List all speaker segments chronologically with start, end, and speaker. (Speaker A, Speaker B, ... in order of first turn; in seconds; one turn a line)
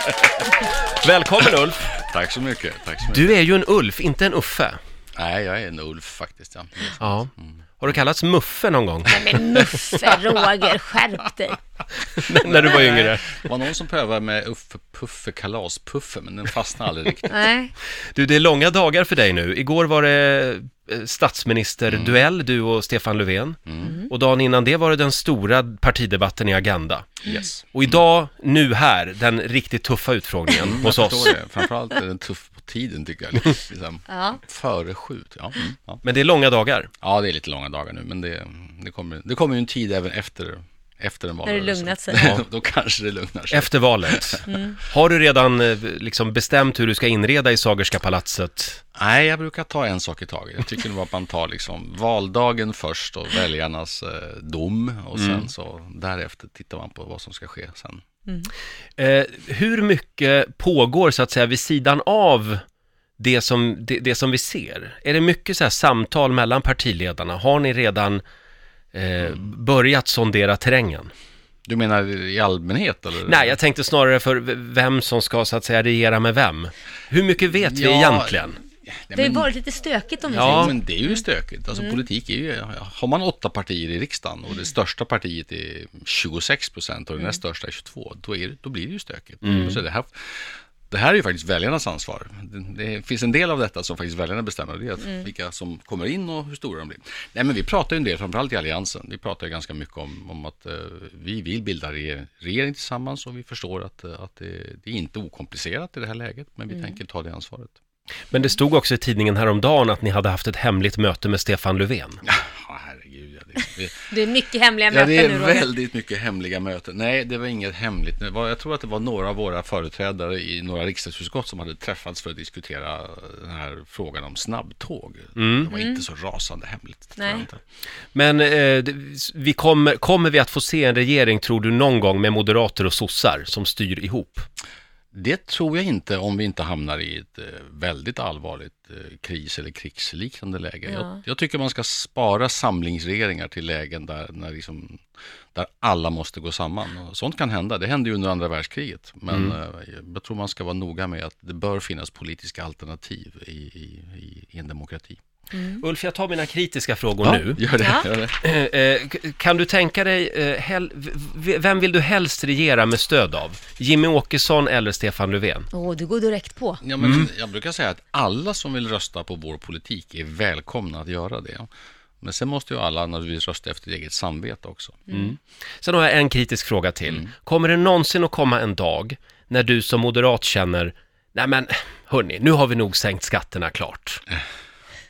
Speaker A: 1.0-1.9
Speaker B: 1.9-3.4
Speaker A: 3.1-4.8
Speaker B: 5.1-7.5
Speaker A: 7.0-9.3
Speaker C: 9.1-11.6
Speaker A: 12.2-13.4
Speaker B: 12.4-17.4
Speaker C: 17.3-17.7
Speaker A: 18.1-31.3
Speaker B: 21.9-22.2
Speaker B: 23.7-23.9
Speaker C: 23.8-24.1
Speaker B: 27.2-27.6
Speaker B: 30.6-36.0
Speaker C: 34.1-34.4
Speaker A: 36.0-36.9
Speaker B: 37.0-44.4
Speaker C: 41.4-42.4
Speaker A: 43.5-48.8
Speaker C: 44.5-44.8
Speaker B: 49.0-58.0
Speaker A: 55.1-55.4
Speaker A: 59.0-62.6
Speaker A: 63.2-68.2
Speaker A: 68.9-71.1
Speaker B: 71.7-73.5
Speaker A: 73.2-78.6
Speaker B: 77.5-79.5
Speaker C: 79.1-80.8
Speaker B: 80.3-107.8
Speaker A: 80.3-80.7
Speaker A: 89.4-89.8
Speaker A: 108.3-112.2
Speaker B: 112.2-114.1
Speaker C: 114.1-115.7
Speaker B: 114.9-127.6
Speaker A: 125.3-125.7
Speaker C: 127.2-127.5
Speaker A: 128.1-134.5
Speaker B: 135.1-155.2
Speaker C: 140.9-141.2
Speaker C: 155.5-155.8
Speaker A: 155.8-157.6
Speaker B: 157.2-158.4
Speaker C: 157.8-158.1
Speaker A: 158.4-165.7
Speaker C: 165.7-166.8
Speaker B: 166.8-171.7
Speaker B: 172.2-175.1
Speaker A: 175.1-184.2